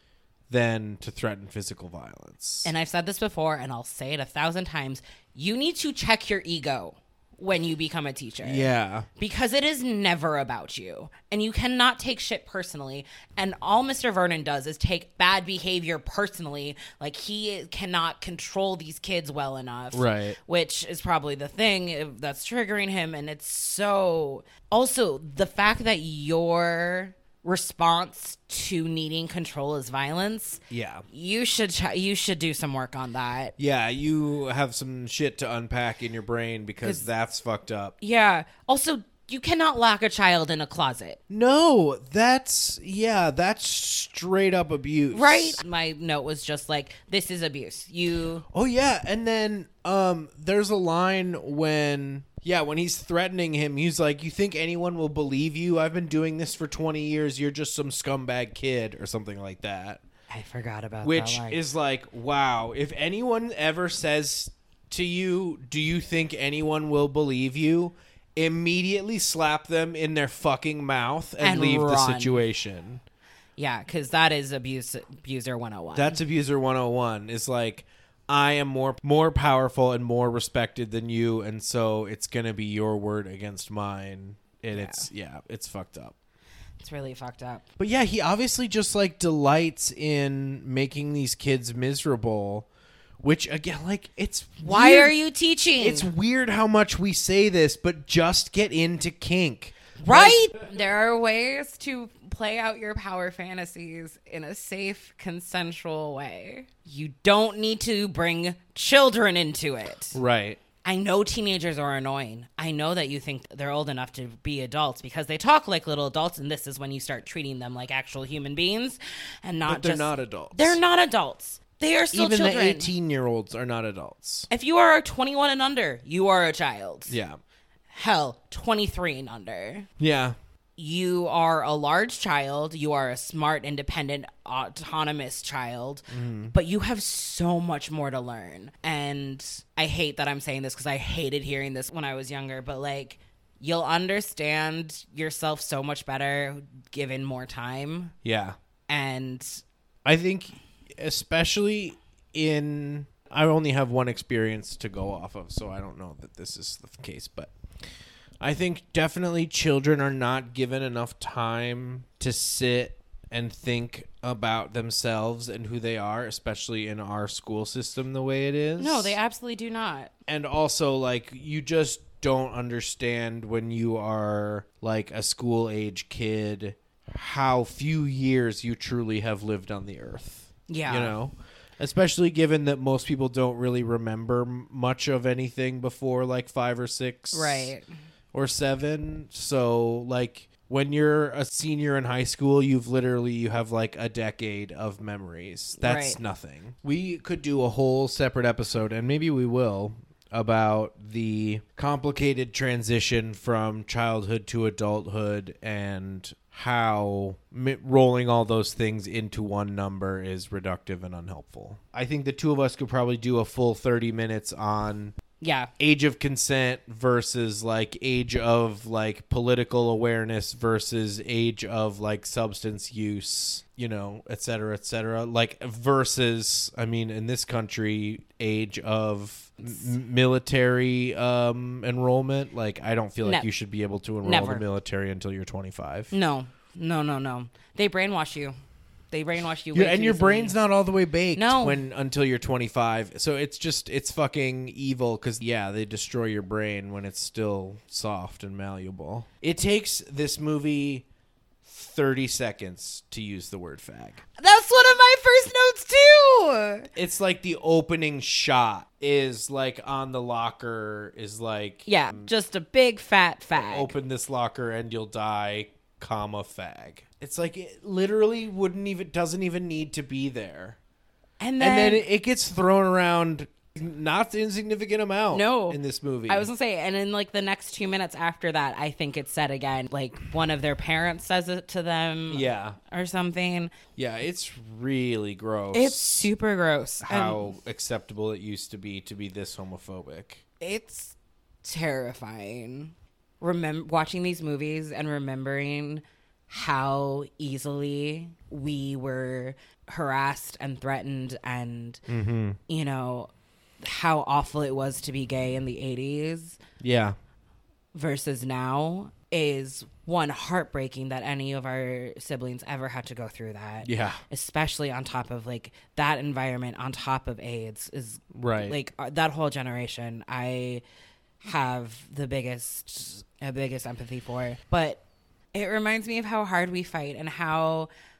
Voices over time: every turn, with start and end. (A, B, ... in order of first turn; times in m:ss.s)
0:00.5-0:02.7 A
0:02.6-0:33.5 B
0:08.4-0:09.1 A
0:19.9-0:20.4 A
0:30.7-0:31.0 A
0:33.6-0:37.9 A
0:36.8-0:37.1 B
0:38.0-0:41.2 B
0:41.3-0:45.6 A
0:45.1-0:48.4 B
0:48.5-1:00.0 A
1:00.3-1:01.6 B
1:01.0-1:13.0 A
1:11.4-1:12.4 B
1:13.6-1:16.2 B
1:16.0-1:26.2 A
1:24.7-1:25.1 B
1:26.8-1:27.6 B
1:27.8-1:32.7 A
1:33.2-1:35.2 A
1:34.6-1:36.1 B
1:35.8-1:40.5 A
1:40.0-1:50.2 B
1:50.1-1:50.6 A
1:50.8-2:02.9 B
1:59.7-2:00.8 A
2:02.1-2:04.5 A
2:04.5-2:07.2 B
2:07.1-2:07.4 A
2:07.9-2:09.9 B
2:10.0-2:10.4 A
2:10.8-2:28.2 B
2:16.1-2:16.6 A
2:28.2-2:28.6 A
2:28.9-2:29.6 B
2:30.0-2:37.5 A
2:38.4-2:49.2 A
2:48.8-2:50.1 B
2:50.3-3:07.8 A
3:00.7-3:01.2 B
3:07.3-3:07.9 B
3:08.3-3:35.2 A
3:15.8-3:16.2 B
3:35.4-3:35.7 B
3:35.8-3:56.1 A
3:54.2-3:54.6 B
3:56.1-3:58.6 B
3:59.1-4:00.6 B
3:59.7-4:11.1 A
4:01.4-4:01.8 B
4:11.6-4:14.2 A
4:14.4-4:16.9 B
4:17.0-4:22.3 A
4:21.9-4:23.9 B
4:23.5-4:30.8 A
4:31.4-4:32.1 B
4:31.6-4:36.5 A
4:35.3-4:43.7 B
4:42.3-4:42.8 A
4:44.0-4:46.3 A
4:45.7-4:47.5 B
4:47.0-4:50.4 A
4:50.6-5:02.0 B
5:02.1-5:02.6 A
5:02.7-5:06.6 B
5:06.8-5:07.2 A
5:07.9-5:20.8 B
5:13.8-5:14.2 A
5:18.3-5:18.8 A
5:21.4-5:25.0 B
5:25.5-5:27.9 B